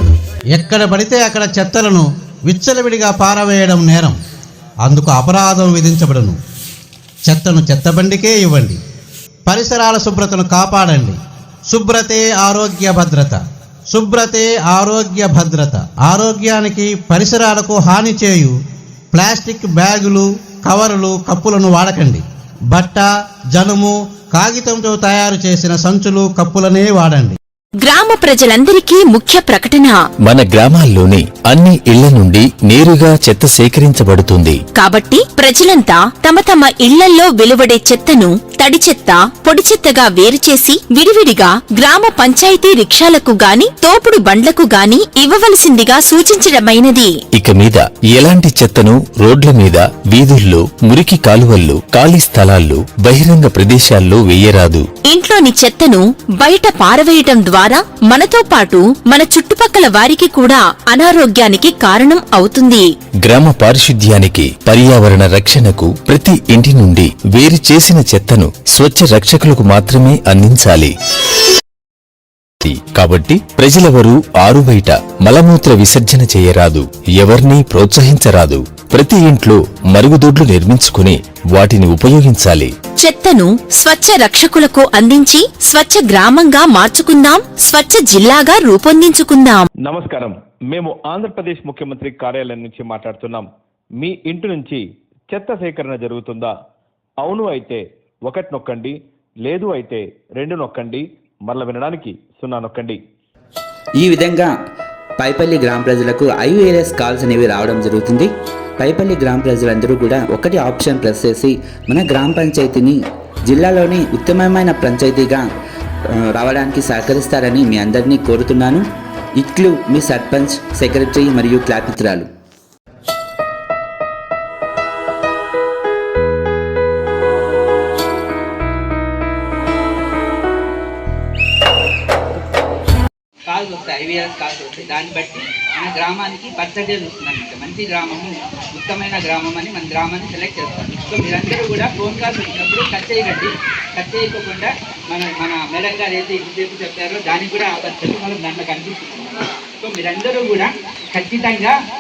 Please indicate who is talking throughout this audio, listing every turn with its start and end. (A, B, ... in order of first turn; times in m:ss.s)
0:00.5-0:04.2 A
0:04.8-0:06.4 A
0:07.2-0:08.8 A
0:09.5-0:11.2 A
0:11.7-0:13.4 A
0:13.9-0:18.5 A
0:19.1-0:22.2 A
0:22.7-0:27.4 A
0:27.8-0:30.0 B
0:30.2-0:34.6 C
0:34.7-0:47.2 B
0:47.3-0:54.9 C
0:55.1-1:02.9 B
1:03.2-1:10.9 C
1:12.6-1:22.7 C
1:23.0-1:29.6 B
1:29.8-1:33.5 D
1:34.0-1:36.5 D
1:37.2-1:43.0 D
1:44.0-1:44.6 E
1:45.2-1:55.5 E
1:56.2-1:58.8 E
1:59.4-2:02.3 E
2:13.5-2:31.8 F